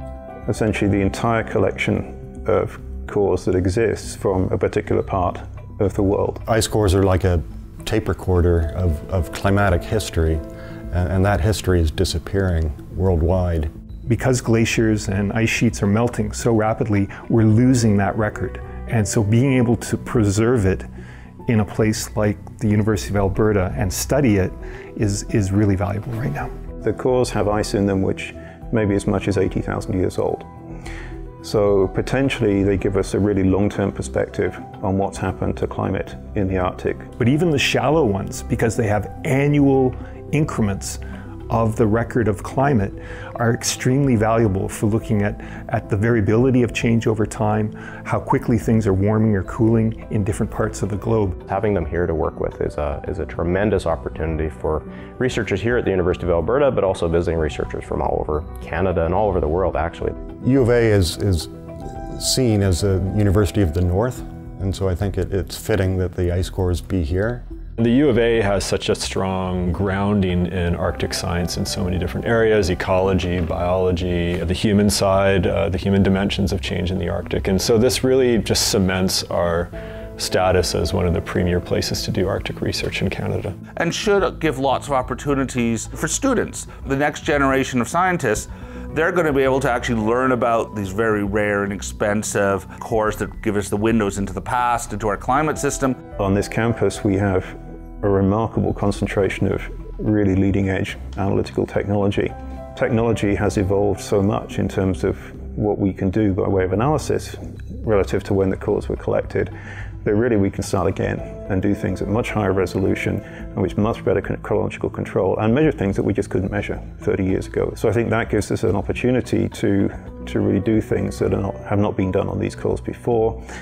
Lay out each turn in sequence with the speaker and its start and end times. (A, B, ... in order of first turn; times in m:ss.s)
0:00.5-0:06.4 A
0:06.4-0:10.4 B
0:10.9-0:13.7 B
0:14.0-0:20.9 C
0:21.5-0:26.5 C
0:26.8-0:30.5 A
0:31.4-0:37.1 A
0:37.2-0:51.4 C
0:51.5-1:00.1 D
1:00.4-1:07.4 B
1:07.8-1:23.6 E
1:23.8-1:36.0 F
1:36.2-2:03.4 A